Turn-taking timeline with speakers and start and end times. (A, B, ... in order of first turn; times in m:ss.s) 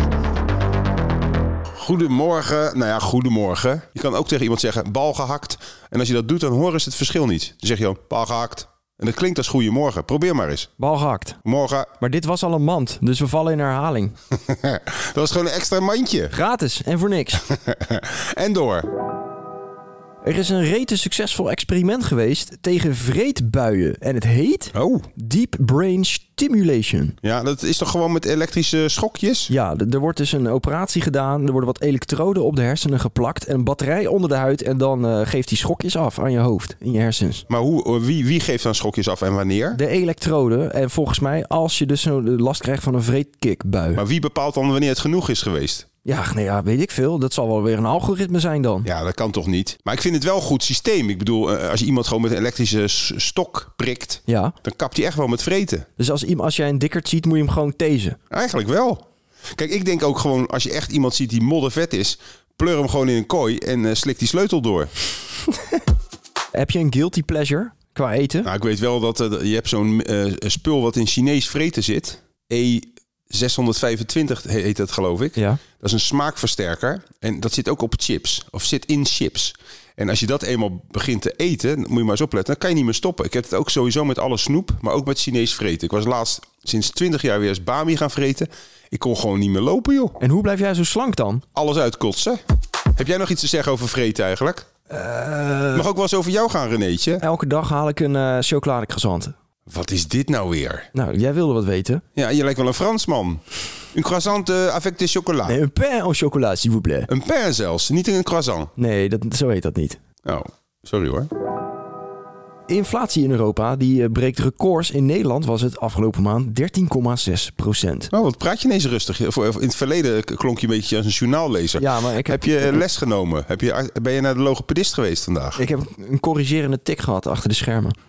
0:01.8-0:10.7 A
0:10.8-0:11.4 B
0:11.4-0:11.9 A
0:12.0-0:14.1 B
0:14.3-0:16.3 A
0:16.3-0:17.4 B
0:17.4-0:18.9 A
0:20.2-0:27.2 B
0:24.7-0:25.1 A
0:27.2-0:29.5 A
0:29.5-0:37.4 B
0:37.5-0:39.8 A
0:39.7-0:44.0 B
0:43.9-0:45.9 A
0:46.0-0:48.9 B
0:48.8-0:55.8 A
0:54.3-0:54.5 B
0:56.0-0:58.2 B
0:58.3-0:59.0 A
0:59.5-1:04.9 A
1:06.5-1:08.5 B
1:08.4-1:30.2 A
1:15.4-1:15.6 B
1:30.2-1:31.4 B
1:31.5-1:32.4 A
1:33.0-1:34.7 A
1:34.9-1:35.8 B
1:35.7-1:37.2 A
1:37.2-1:39.3 B
1:39.7-1:40.9 A
1:40.9-1:42.0 B
1:42.2-1:43.4 A
1:43.9-1:45.6 A
1:45.4-1:47.1 B
1:47.1-1:48.7 A
1:48.8-1:50.0 B
1:50.2-1:51.3 A
1:52.7-1:58.1 B
1:58.1-2:05.6 A
2:01.8-2:02.8 B
2:05.6-2:08.0 B